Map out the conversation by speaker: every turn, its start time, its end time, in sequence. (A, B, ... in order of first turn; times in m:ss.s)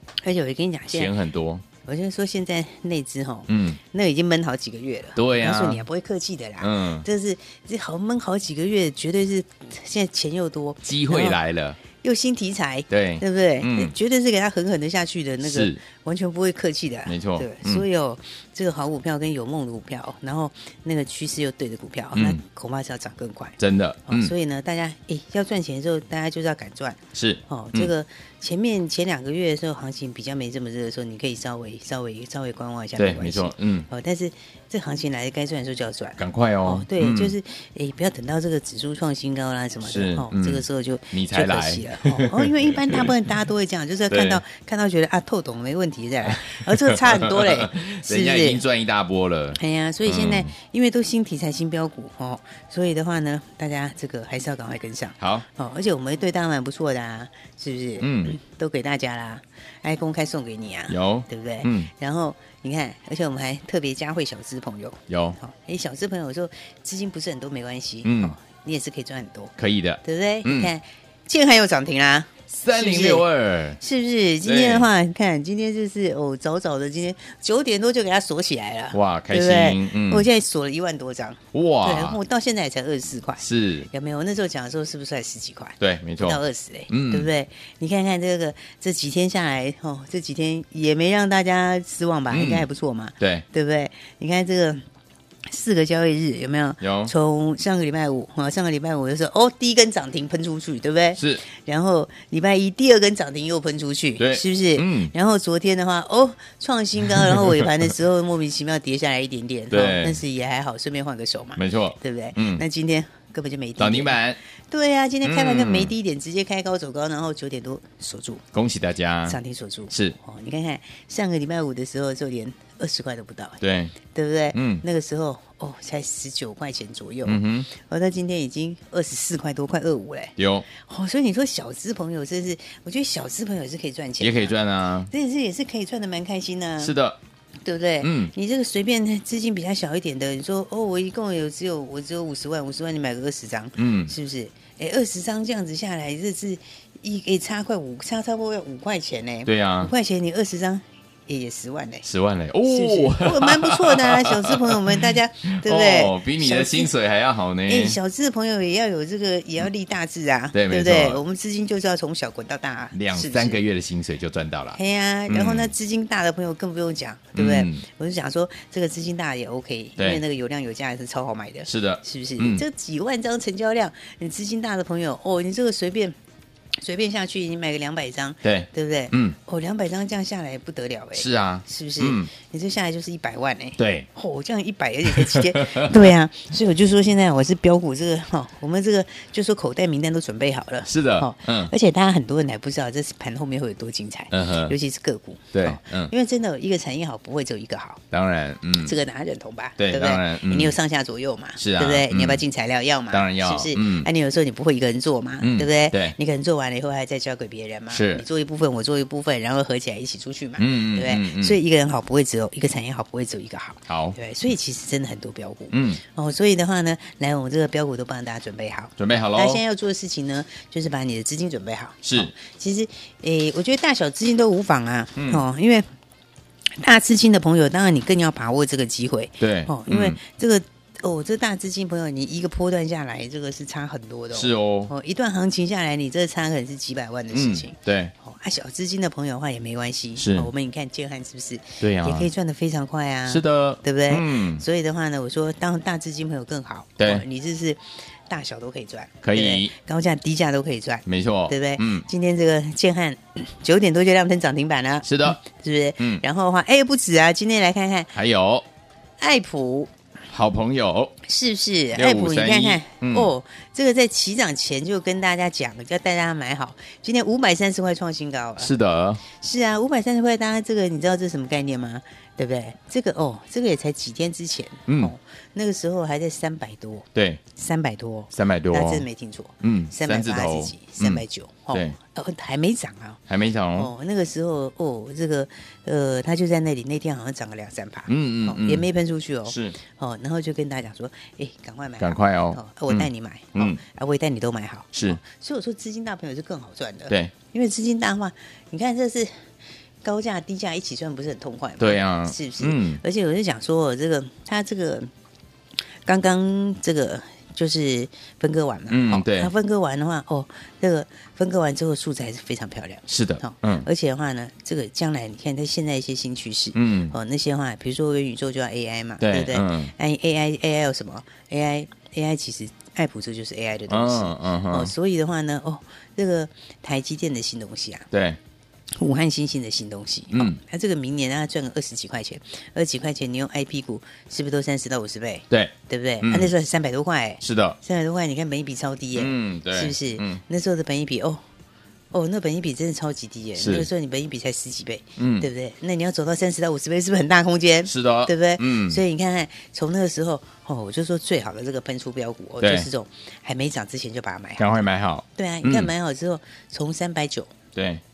0:00.2-0:01.1 A
0:00.9-0:01.6 B
0:01.8-0:11.4 A
0:03.5-0:03.8 B
0:05.2-0:05.8 B
0:06.6-0:07.1 B
0:10.8-0:11.8 B
0:12.0-0:48.6 A
0:12.9-0:13.9 B
0:15.4-0:15.8 B
0:17.1-0:17.8 B
0:22.2-0:22.4 B
0:23.6-0:24.3 B
0:27.1-0:27.9 B
0:33.0-0:33.9 B
0:36.2-0:37.3 B
0:39.8-0:43.1 B
0:44.1-0:44.4 B
0:46.6-0:50.5 B
0:49.6-1:13.2 A
0:55.2-0:55.4 B
0:58.0-0:58.4 B
1:00.9-1:01.9 B
1:05.1-1:05.4 B
1:08.0-1:08.4 B
1:09.6-1:10.7 B
1:12.5-1:13.8 B
1:13.8-1:34.8 A
1:14.4-1:14.9 B
1:18.9-1:20.3 B
1:21.5-1:22.2 B
1:23.4-1:23.9 B
1:25.8-1:27.3 B
1:32.3-1:32.7 B
1:35.5-1:58.4 A
1:36.8-1:37.1 B
1:41.2-1:41.4 B
1:44.2-1:45.1 B
1:47.1-1:47.7 B
1:49.7-1:50.2 B
1:51.6-1:52.6 B
1:53.8-1:54.4 B
1:55.2-1:55.9 B
1:58.5-1:59.4 B
1:59.3-2:14.6 A
1:59.9-2:00.2 B
2:03.6-2:03.9 B
2:04.5-2:04.8 B
2:07.3-2:07.7 B
2:10.4-2:10.6 B
2:14.2-2:15.1 B
2:15.1-2:16.9 A
2:16.8-2:17.2 B
2:17.6-2:32.0 A
2:18.0-2:18.3 B
2:23.8-2:24.1 B
2:29.4-2:29.9 B
2:32.0-2:38.0 B
2:32.7-2:37.0 A
2:37.7-2:43.6 A
2:40.5-2:41.2 B
2:42.9-2:44.8 B
2:44.8-2:56.2 A
2:45.3-2:45.7 B
2:47.4-2:47.8 B
2:51.7-2:52.6 B
2:56.8-3:18.0 A
2:58.4-2:59.4 B
3:01.2-3:02.3 B
3:03.8-3:04.1 B
3:05.1-3:06.1 B
3:10.8-3:11.7 B
3:14.3-3:14.8 B
3:15.5-3:16.1 B
3:18.1-3:18.9 B
3:18.8-3:45.9 A
3:19.8-3:20.8 B
3:21.6-3:22.4 B
3:23.1-3:24.1 B
3:25.4-3:26.2 B
3:27.9-3:28.2 B
3:30.6-3:31.6 B
3:33.9-3:34.2 B
3:35.7-3:36.0 B
3:39.0-3:39.6 B
3:42.0-3:42.3 B
3:45.2-3:45.4 B
3:46.8-4:18.1 A
3:49.4-3:50.2 B
3:54.3-3:54.9 B
3:57.3-3:58.1 B
4:00.2-4:00.5 B
4:01.8-4:02.3 B
4:03.3-4:04.6 B
4:07.0-4:07.2 B
4:09.2-4:09.7 B
4:11.0-4:12.1 B
4:15.0-4:15.4 B
4:18.1-4:18.6 B
4:19.2-4:19.9 A
4:20.3-4:21.2 B
4:21.3-4:28.7 A
4:21.9-4:23.3 B
4:28.6-4:29.2 B
4:29.4-4:43.2 A
4:34.9-4:35.1 B
4:37.2-4:37.4 B
4:38.3-4:39.0 B
4:39.6-4:42.0 B
4:43.3-4:43.9 B
4:43.8-4:59.4 A
4:48.1-4:48.9 B
4:49.5-4:49.8 B
4:52.0-4:53.8 B
4:54.9-4:55.2 B
5:00.0-5:05.1 A
5:01.8-5:03.0 B
5:06.1-5:28.1 A
5:08.9-5:09.5 B
5:13.1-5:13.9 B
5:16.7-5:17.2 B
5:19.2-5:19.9 B
5:23.9-5:24.9 B
5:28.1-5:28.4 B
5:29.0-5:41.4 A
5:30.3-5:30.6 B
5:35.5-5:36.5 B
5:37.4-5:37.8 B
5:39.2-5:40.4 B
5:42.1-5:54.7 A
5:43.6-5:43.9 B
5:45.2-5:45.5 B
5:47.9-5:49.0 B
5:52.6-5:52.9 B
5:54.6-5:55.9 B
5:55.4-5:57.5 A
5:57.8-5:58.0 B